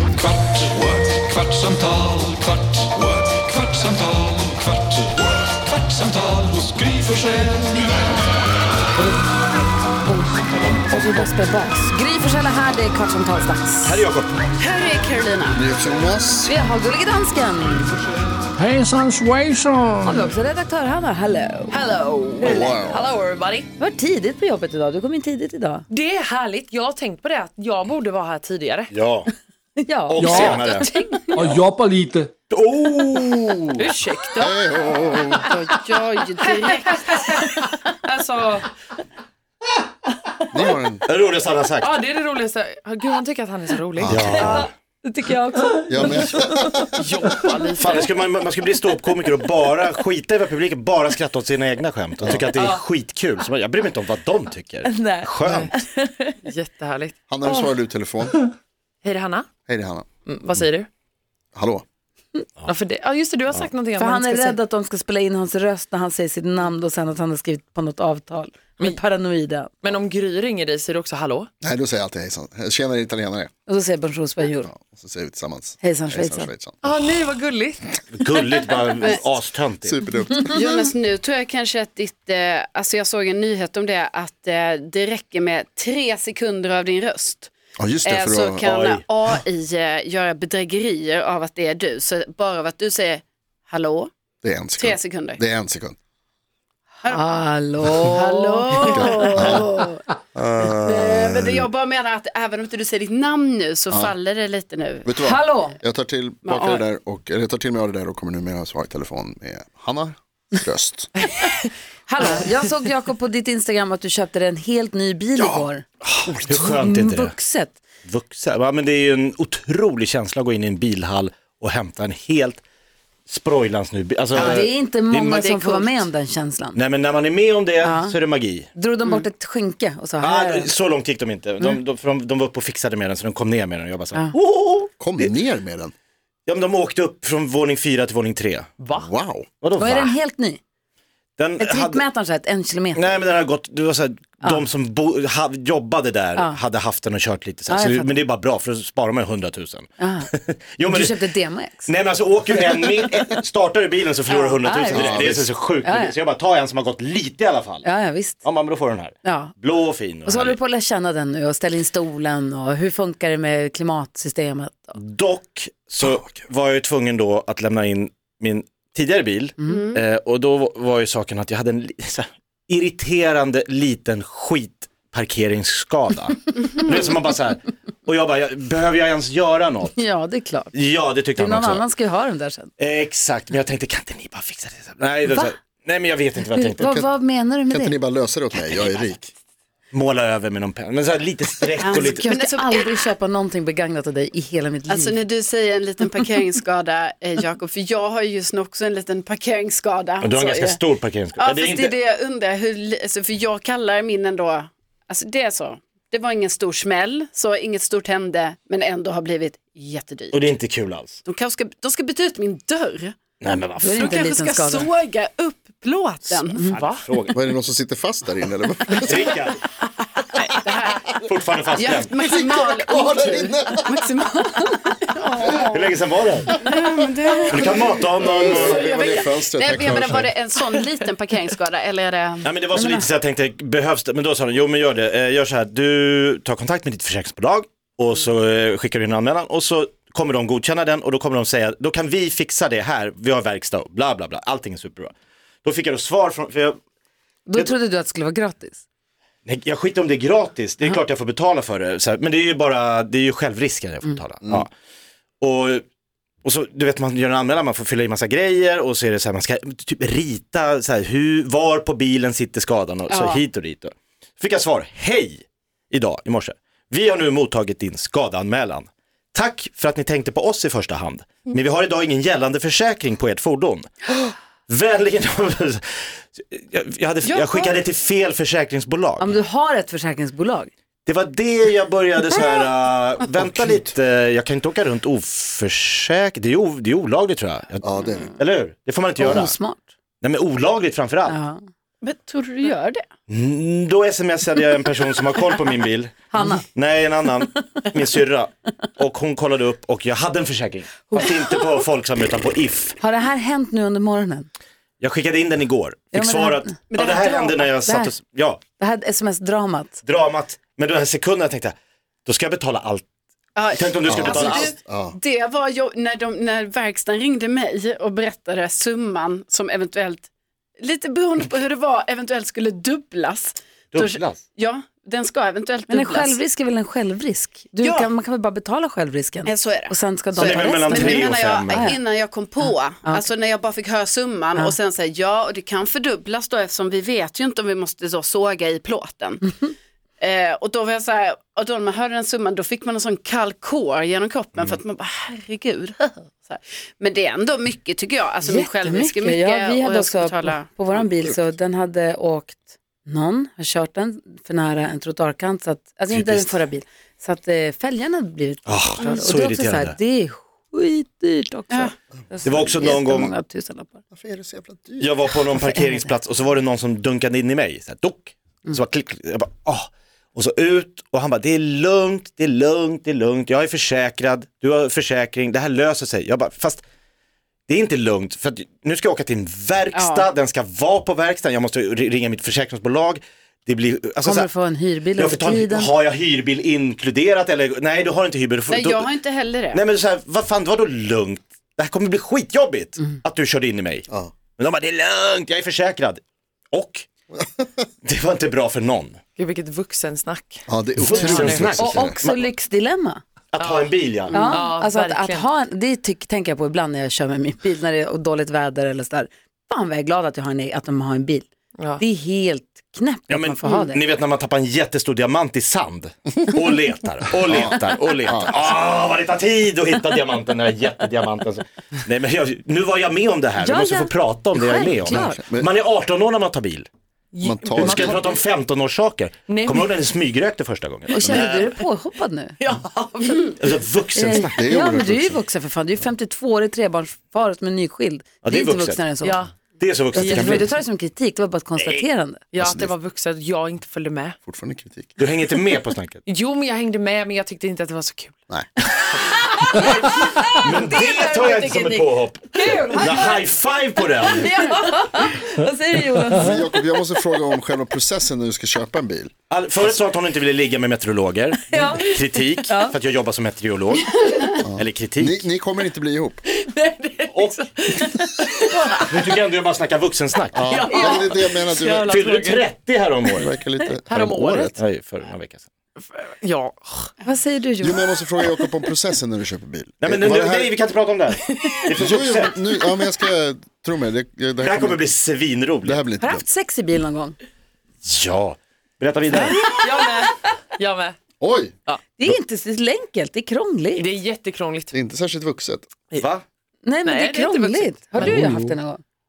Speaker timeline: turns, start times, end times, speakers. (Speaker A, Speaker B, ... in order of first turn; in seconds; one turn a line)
Speaker A: 0.2-7.8
Speaker B: 10.1-14.0
Speaker C: 13.8-14.5
Speaker D: 14.6-15.6
Speaker E: 15.5-16.6
Speaker B: 16.5-18.0
Speaker F: 18.6-20.2
Speaker B: 20.0-21.8
Speaker G: 21.7-23.7
Speaker E: 22.4-23.1
Speaker B: 23.8-25.9
Speaker G: 25.9-28.9
Speaker C: 28.9-29.3
Speaker B: 29.8-31.5
Speaker C: 30.1-30.9
Speaker F: 30.2-30.7
Speaker F: 31.3-32.3
Speaker C: 32.5-33.8
Speaker G: 33.8-34.6
Speaker E: 34.4-35.5
Speaker D: 35.4-37.5
Speaker G: 37.0-38.7
Speaker E: 40.5-41.0
Speaker C: 41.1-41.9
Speaker G: 41.8-44.6
Speaker E: 44.0-44.7
Speaker C: 44.0-44.7
Speaker B: 44.1-46.5
Speaker E: 45.9-47.2
Speaker G: 46.9-48.1
Speaker C: 47.8-55.7
Speaker E: 52.2-52.5
Speaker G: 52.5-52.8
Speaker B: 54.8-56.4
Speaker G: 56.4-57.8
Speaker E: 57.3-58.4
Speaker G: 59.0-59.5
Speaker E: 59.7-60.0
Speaker G: 60.2-60.9
Speaker E: 61.5-61.8
Speaker G: 62.6-64.6
Speaker B: 64.0-69.8
Speaker G: 69.8-71.5
Speaker E: 71.6-73.5
Speaker B: 73.7-74.7
Speaker E: 74.7-76.8
Speaker B: 75.8-76.5
Speaker G: 76.8-78.7
Speaker C: 78.1-80.0
Speaker E: 79.8-80.6
Speaker D: 80.4-87.5
Speaker E: 87.8-88.7
Speaker D: 88.0-94.1
Speaker C: 88.7-89.0
Speaker E: 94.4-96.0
Speaker D: 94.8-95.4
Speaker B: 97.1-99.6
Speaker D: 98.1-100.0
Speaker E: 98.8-99.7
Speaker E: 100.3-101.7
Speaker D: 100.7-105.1
Speaker E: 105.0-111.1
Speaker B: 105.2-105.8
Speaker D: 106.5-106.8
Speaker G: 111.4-111.7
Speaker B: 112.1-115.8
Speaker E: 115.4-116.8
Speaker C: 116.5-117.3
Speaker B: 116.5-117.8
Speaker C: 118.1-122.6
Speaker C: 123.3-125.5
Speaker D: 124.3-124.7
Speaker B: 124.3-126.8
Speaker D: 125.3-126.1
Speaker C: 126.8-128.7
Speaker B: 127.8-128.2
Speaker B: 128.8-130.7
Speaker C: 130.2-135.3
Speaker E: 135.0-135.9
Speaker C: 136.5-138.7
Speaker G: 138.8-139.1
Speaker E: 138.9-139.5
Speaker C: 139.6-140.1
Speaker B: 139.8-140.6
Speaker C: 141.4-142.0
Speaker B: 141.6-143.2
Speaker C: 142.9-151.2
Speaker B: 147.7-148.2
Speaker B: 150.0-150.3
Speaker B: 150.8-151.9
Speaker C: 151.8-157.8
Speaker B: 154.3-155.2
Speaker E: 154.9-155.5
Speaker B: 155.8-156.2
Speaker B: 157.8-158.4
Speaker C: 158.4-160.6
Speaker B: 159.2-159.5
Speaker B: 160.2-165.0
Speaker C: 165.0-180.0
Speaker D: 169.7-170.0
Speaker B: 179.9-180.7
Speaker C: 180.7-181.8
Speaker B: 181.3-182.7
Speaker C: 182.8-186.9
Speaker B: 185.3-185.5
Speaker B: 186.5-188.0
Speaker E: 186.8-187.1
Speaker E: 187.7-189.3
Speaker C: 189.9-192.3
Speaker D: 191.8-192.9
Speaker B: 191.9-195.2
Speaker D: 194.9-200.8
Speaker C: 200.2-201.9
Speaker D: 201.4-210.4
Speaker C: 210.3-211.2
Speaker D: 211.2-213.2
Speaker C: 213.4-214.2
Speaker D: 213.8-216.7
Speaker B: 213.8-214.9
Speaker C: 216.7-217.5
Speaker G: 216.7-217.1
Speaker E: 217.3-219.3
Speaker C: 219.1-219.6
Speaker D: 220.5-221.1
Speaker C: 221.2-222.1
Speaker D: 221.8-225.9
Speaker E: 222.2-223.9
Speaker C: 225.6-226.6
Speaker D: 226.5-232.5
Speaker C: 227.5-228.8
Speaker E: 228.2-230.3
Speaker C: 232.4-245.1
Speaker B: 232.7-233.1
Speaker C: 245.6-246.8
Speaker B: 247.5-248.8
Speaker C: 249.5-254.7
Speaker C: 255.4-255.8
Speaker C: 256.4-273.9
Speaker D: 263.1-263.4
Speaker C: 274.7-279.4
Speaker D: 277.2-277.8
Speaker B: 279.2-280.7
Speaker C: 281.1-287.8
Speaker E: 283.4-283.9
Speaker E: 287.8-288.3
Speaker C: 288.4-289.5
Speaker B: 289.2-289.9
Speaker E: 289.2-289.5
Speaker C: 290.2-291.4
Speaker B: 291.3-291.6
Speaker D: 292.0-293.0
Speaker C: 293.3-303.0
Speaker B: 296.3-296.7
Speaker B: 297.5-297.9
Speaker B: 301.1-301.6
Speaker B: 303.0-304.5
Speaker C: 305.0-308.6
Speaker B: 306.1-306.8
Speaker D: 306.9-307.6
Speaker B: 307.7-308.1
Speaker B: 308.8-310.0
Speaker C: 310.0-311.7
Speaker C: 312.2-313.1
Speaker D: 313.6-320.3
Speaker C: 313.7-314.7
Speaker E: 314.0-315.1
Speaker D: 320.8-326.4
Speaker C: 323.9-324.4
Speaker B: 325.9-332.0
Speaker D: 327.8-328.1
Speaker D: 329.4-339.5
Speaker C: 330.3-331.9
Speaker B: 332.6-333.2
Speaker D: 340.2-350.7
Speaker B: 348.4-364.0
Speaker C: 356.1-356.6
Speaker C: 358.6-359.9
Speaker C: 362.4-363.3
Speaker E: 364.1-365.1
Speaker C: 365.0-376.8
Speaker C: 377.7-384.5
Speaker D: 379.9-380.2
Speaker B: 384.2-385.9
Speaker C: 385.1-389.1
Speaker D: 388.7-389.8
Speaker C: 389.7-394.0
Speaker C: 394.6-397.1
Speaker C: 398.0-399.2
Speaker G: 399.4-401.8
Speaker E: 400.7-402.2
Speaker C: 401.0-402.5
Speaker B: 401.8-403.2
Speaker C: 403.5-404.5
Speaker G: 403.6-405.4
Speaker B: 404.3-411.5
Speaker B: 412.0-414.0
Speaker C: 413.3-426.9
Speaker E: 417.4-418.5
Speaker B: 423.6-425.4
Speaker E: 425.1-425.7
Speaker G: 427.3-428.4
Speaker E: 427.4-428.4
Speaker C: 427.8-431.8
Speaker G: 429.5-430.0
Speaker B: 431.1-432.6
Speaker G: 432.6-433.8
Speaker C: 433.6-434.6
Speaker B: 434.1-439.4
Speaker E: 434.6-435.4
Speaker C: 438.4-439.0
Speaker G: 439.2-439.5
Speaker C: 439.8-440.7
Speaker G: 440.1-440.7
Speaker B: 440.1-442.4
Speaker C: 441.8-442.0
Speaker G: 442.5-444.4
Speaker E: 442.6-442.9
Speaker E: 444.4-445.2
Speaker C: 445.2-446.2
Speaker G: 446.2-448.4
Speaker B: 449.0-453.4
Speaker C: 450.6-454.6
Speaker G: 452.6-453.5
Speaker B: 454.0-456.7
Speaker E: 456.3-459.3
Speaker C: 459.5-465.5
Speaker B: 461.7-462.9
Speaker E: 464.6-466.4
Speaker G: 466.5-469.4
Speaker C: 469.0-470.6
Speaker E: 470.5-472.1
Speaker G: 470.6-472.7
Speaker B: 470.9-471.2
Speaker C: 472.1-473.5
Speaker E: 473.4-474.8
Speaker G: 474.1-474.7
Speaker C: 474.8-475.6
Speaker G: 476.0-477.1
Speaker B: 477.2-478.1
Speaker E: 477.8-480.8
Speaker C: 480.0-482.5
Speaker G: 481.4-481.9
Speaker E: 482.0-485.0
Speaker C: 484.6-486.0
Speaker E: 485.8-486.4
Speaker B: 486.2-487.4
Speaker C: 488.0-489.6
Speaker G: 489.3-491.1
Speaker E: 491.4-491.7
Speaker B: 492.2-494.1
Speaker G: 493.9-494.9
Speaker E: 494.9-495.9
Speaker C: 496.1-496.4
Speaker B: 496.8-499.0
Speaker G: 497.0-498.4
Speaker F: 498.2-498.8